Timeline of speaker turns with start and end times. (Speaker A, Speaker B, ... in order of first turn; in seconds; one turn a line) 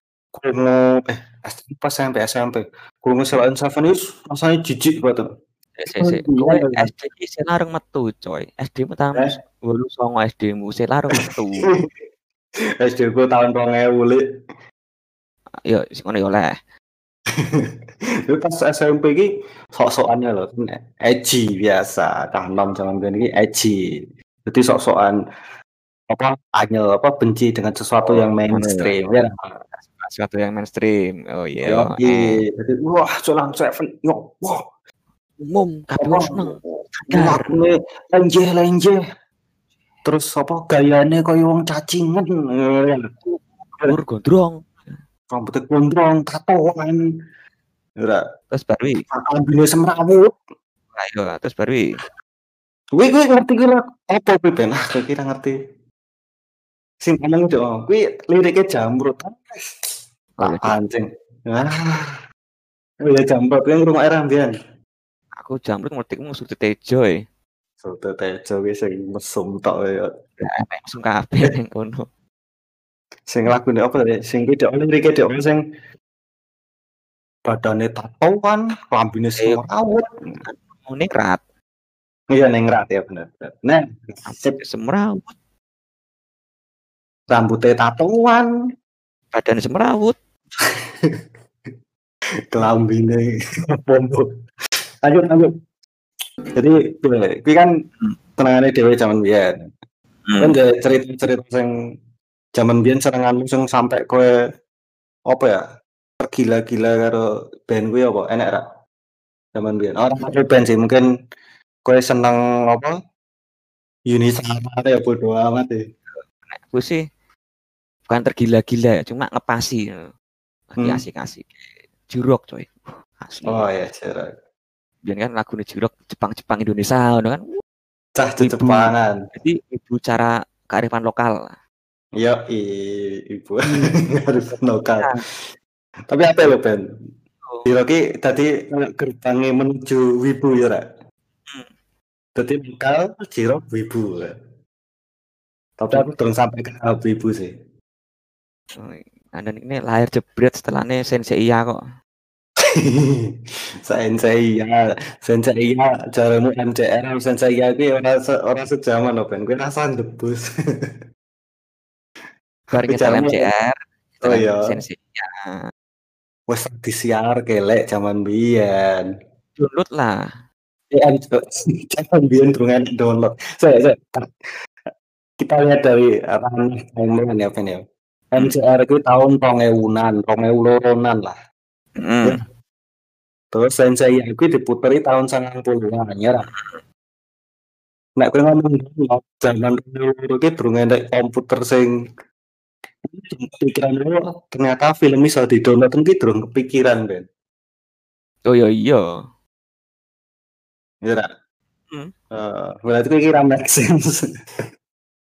Speaker A: 0.3-5.2
Speaker B: 5.8-11.7
Speaker A: 6.0-6.9
Speaker A: 11.2-11.9
Speaker A: 12.8-14.2
Speaker B: 15.6-16.5
Speaker A: 17.4-17.7
Speaker A: 18.3-23.8
Speaker A: 24.4-25.2
Speaker A: 26.1-29.6
Speaker B: 28.0-29.0
Speaker B: 29.8-32.4
Speaker A: 31.6-34.6
Speaker B: 35.4-37.6
Speaker A: 36.0-39.0
Speaker A: 40.0-43.1
Speaker B: 43.3-44.9
Speaker A: 45.3-47.0
Speaker B: 48.5-49.0
Speaker A: 49.1-50.3
Speaker B: 50.9-51.8
Speaker A: 53.0-55.5
Speaker A: 57.0-59.8
Speaker B: 60.4-60.7
Speaker A: 60.4-62.1
Speaker A: 63.0-64.5
Speaker B: 65.4-67.2
Speaker A: 67.8-70.1
Speaker B: 70.4-72.1
Speaker A: 73.3-75.6
Speaker A: 77.5-80.4
Speaker B: 80.4-81.4
Speaker A: 82.3-84.6
Speaker B: 84.2-85.3
Speaker A: 87.3-88.5
Speaker B: 89.3-90.2
Speaker A: 92.5-93.2
Speaker A: 93.9-94.2
Speaker A: 95.0-95.5
Speaker A: 96.5-97.7
Speaker A: 98.4-99.5
Speaker B: 100.3-100.5
Speaker A: 100.4-101.7
Speaker A: 102.5-104.3
Speaker A: 105.3-105.6
Speaker A: 106.2-108.6
Speaker A: 109.5-111.0
Speaker A: 111.8-112.9
Speaker A: 114.1-115.8
Speaker B: 116.3-117.0
Speaker B: 118.1-119.9
Speaker B: 120.7-123.7
Speaker A: 120.8-121.0
Speaker A: 123.5-124.3
Speaker B: 125.0-127.6
Speaker A: 128.2-129.1
Speaker B: 128.4-131.6
Speaker A: 132.2-132.7
Speaker A: 133.3-133.7
Speaker B: 133.7-134.0
Speaker A: 134.2-135.2
Speaker A: 136.1-136.8
Speaker A: 137.7-140.8
Speaker A: 142.3-144.3
Speaker A: 145.8-147.5
Speaker B: 148.8-151.8
Speaker A: 152.8-153.3
Speaker A: 153.8-160.9
Speaker B: 162.7-165.7
Speaker A: 162.8-163.5
Speaker A: 164.2-164.8
Speaker A: 166.5-169.1
Speaker B: 169.6-170.2
Speaker A: 170.9-174.3
Speaker A: 175.4-181.3
Speaker B: 182.0-182.4
Speaker A: 183.5-186.5
Speaker B: 186.5-186.8
Speaker A: 188.2-191.9
Speaker A: 193.1-197.2
Speaker B: 198.4-199.2
Speaker A: 202.3-204.2